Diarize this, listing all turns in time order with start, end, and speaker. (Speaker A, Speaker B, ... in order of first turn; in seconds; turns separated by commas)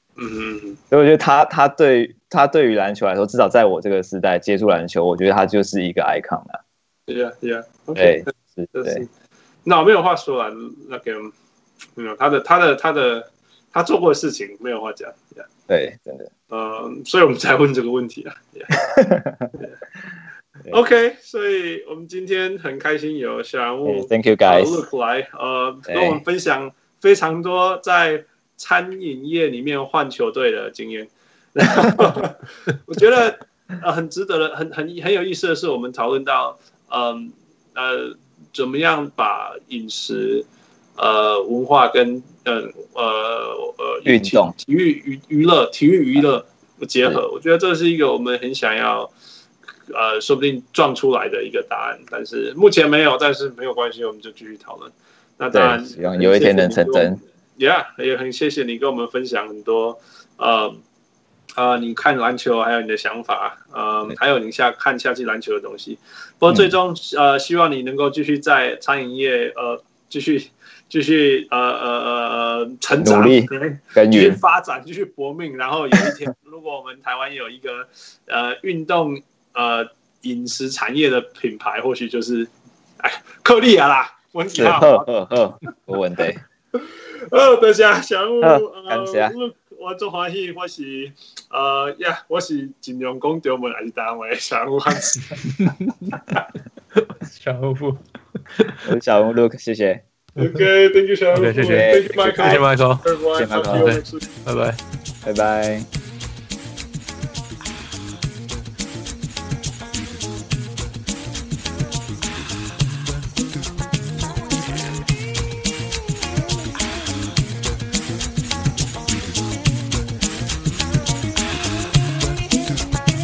Speaker A: 0.2-0.8, Speaker B: 0.9-6.6, Speaker A: 7.1-9.1, Speaker B: 8.0-9.0, Speaker A: 9.7-11.3, Speaker A: 12.0-15.5, Speaker B: 15.7-16.3, Speaker A: 16.5-18.8, Speaker B: 18.9-19.5, Speaker A: 20.7-49.1, Speaker B: 23.9-24.8, Speaker B: 25.9-26.2, Speaker B: 44.1-44.5, Speaker A: 49.9-60.8, Speaker B: 55.5-57.2, Speaker A: 61.6-85.1, Speaker B: 73.0-74.4, Speaker B: 84.5-86.4, Speaker A: 86.8-95.2, Speaker B: 88.4-89.3, Speaker C: 95.4-96.1, Speaker C: 97.0-98.0, Speaker C: 98.5-98.8, Speaker B: 98.8-100.0, Speaker A: 100.4-104.2, Speaker C: 101.3-103.0, Speaker B: 101.7-102.6, Speaker B: 103.4-103.9, Speaker C: 103.7-104.8, Speaker B: 105.2-105.9